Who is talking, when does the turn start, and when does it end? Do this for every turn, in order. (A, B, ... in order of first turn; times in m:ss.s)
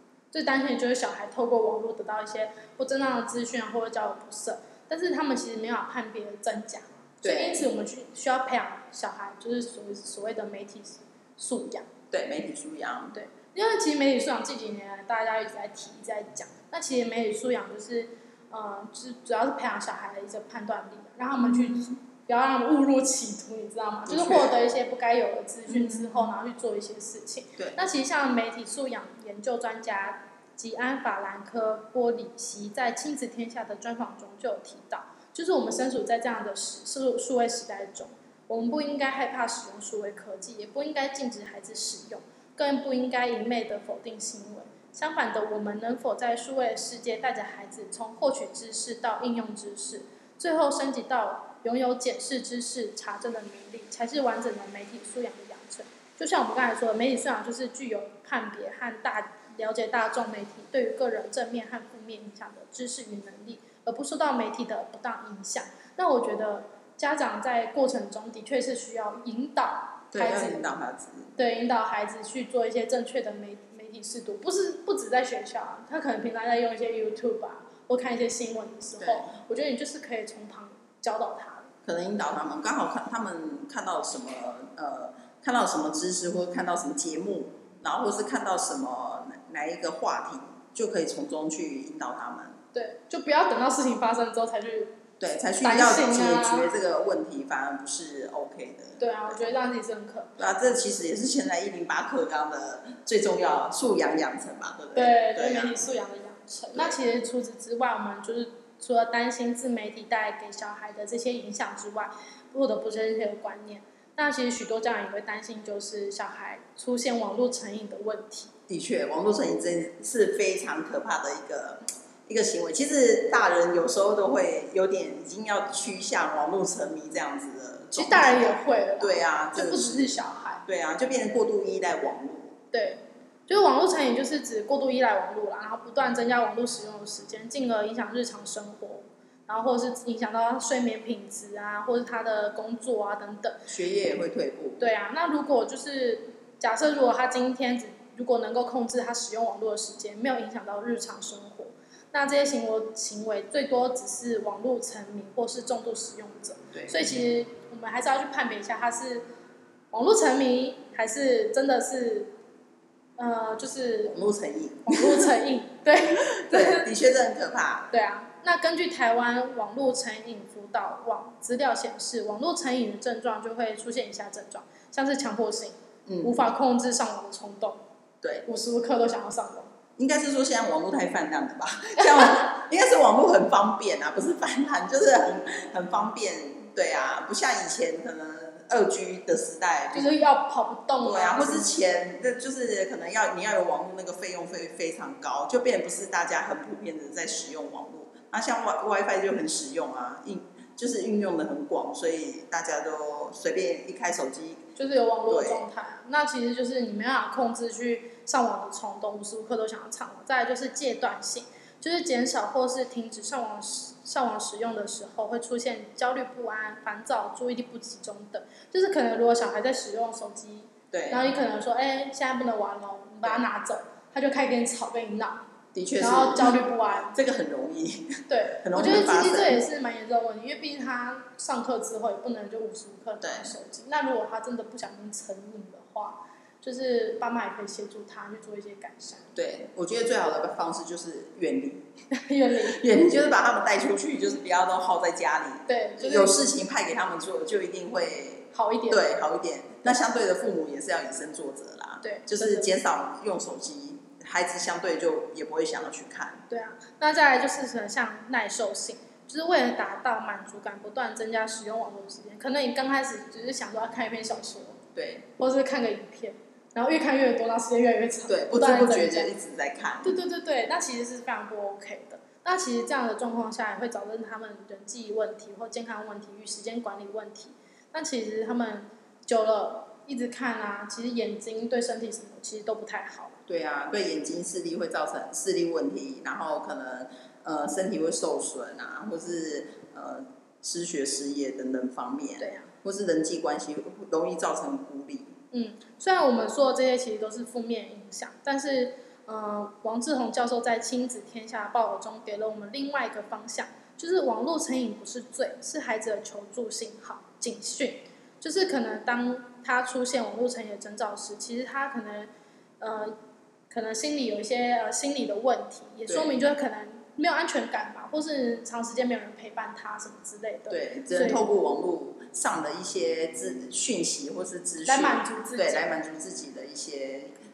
0:00.3-0:11.9 A
0:07.2-0:07.7 B
0:12.1-0:13.2 B
0:13.1-1:10.7 A
0:21.4-0:22.0 B
0:24.1-0:24.5 B
0:25.7-0:26.3 B
1:10.1-1:11.3 B
1:11.4-1:21.7 A
1:19.0-1:19.3 B
1:21.8-1:32.6 B
1:32.7-1:35.0 A
1:35.2-1:39.4 B
1:35.6-1:36.7 A
1:39.0-1:40.3 A
1:40.4-1:45.9 B
1:45.0-1:58.5 A
1:58.7-2:12.6 B
2:08.0-2:10.6 A
2:12.7-2:23.6 A
2:23.7-2:24.9 B
2:24.8-2:39.2 A
2:36.7-2:37.0 B
2:39.9-2:42.3 A
2:43.2-2:44.2 A
2:44.1-2:45.3 B
2:44.9-2:46.9 A
2:46.2-2:47.9 B
2:47.9-2:57.8 A
2:56.1-2:56.4 B
2:58.5-2:59.7 A
3:00.0-3:10.1 B
3:02.0-3:02.4 A
3:09.9-3:11.8 A
3:11.0-3:24.6 B
3:24.8-3:45.5 A
3:25.3-3:25.7 B
3:40.9-3:41.3 B
3:45.8-3:46.6 B
3:46.0-3:47.2 A
3:47.1-3:49.7 B
3:48.3-3:59.3 A
3:53.2-3:53.5 B
3:59.4-4:01.9 B
4:02.1-4:02.8 A
4:02.6-4:16.4 B
4:05.7-4:06.4 A
4:08.5-4:09.1 A
4:12.0-4:12.7 A
4:16.5-4:24.8 A
4:25.0-4:25.3 B
4:25.4-4:29.3 A
4:28.3-4:30.2 B
4:30.0-4:43.4 A
4:43.5-4:55.4 B
4:52.4-4:52.7 A
4:55.5-5:13.2 A
5:13.7-5:21.5 A
5:16.1-5:16.3 B
5:20.7-5:27.3 B
5:24.9-5:25.9 A